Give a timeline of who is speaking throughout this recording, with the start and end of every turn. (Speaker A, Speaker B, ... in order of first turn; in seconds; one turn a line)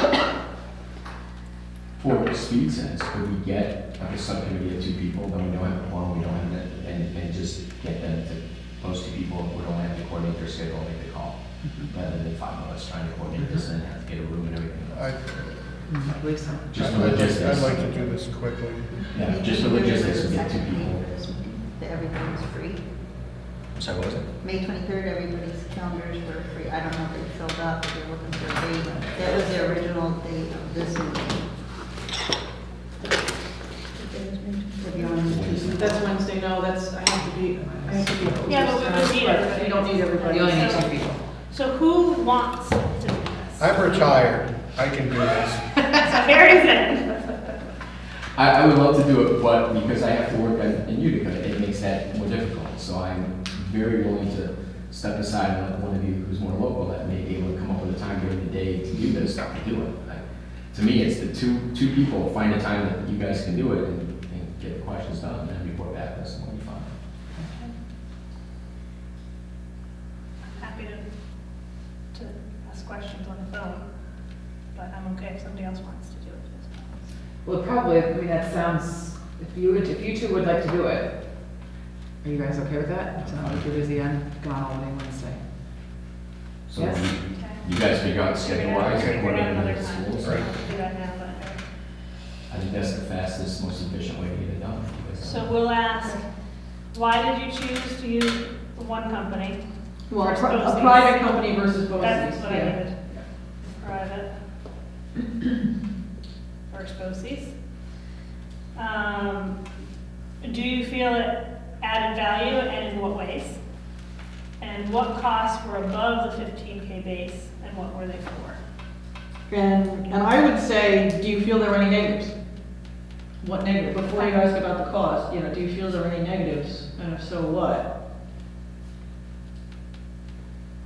Speaker A: 2.0-15.0
Speaker B: 11.6-11.9
Speaker C: 14.9-16.1
Speaker B: 15.9-17.4
Speaker A: 16.7-18.1
Speaker C: 16.7-19.2
Speaker D: 18.9-22.8
Speaker A: 19.1-21.0
Speaker A: 23.8-24.3
Speaker D: 24.4-31.5
Speaker D: 33.9-36.1
Speaker A: 35.2-36.0
Speaker E: 35.8-40.6
Speaker B: 37.1-38.7
Speaker F: 38.5-44.2
Speaker B: 40.2-41.2
Speaker C: 43.6-45.6
Speaker F: 45.8-47.4
Speaker A: 48.4-66.9
Speaker F: 70.5-71.0
Speaker F: 72.1-73.9
Speaker F: 74.7-77.0
Speaker B: 77.4-81.2
Speaker B: 82.2-85.4
Speaker A: 83.2-83.7
Speaker A: 86.7-90.6
Speaker B: 86.7-87.1
Speaker F: 87.3-87.7
Speaker F: 88.2-91.6
Speaker C: 88.7-89.5
Speaker C: 90.2-90.5
Speaker A: 92.5-95.5
Speaker F: 95.2-96.2
Speaker F: 96.9-99.6
Speaker E: 100.1-103.2
Speaker F: 100.1-103.0
Speaker F: 103.6-104.3
Speaker F: 106.7-107.5
Speaker F: 108.8-109.6
Speaker F: 110.4-113.6
Speaker F: 114.6-118.6
Speaker E: 119.5-122.3
Speaker E: 123.4-127.8
Speaker F: 124.1-124.4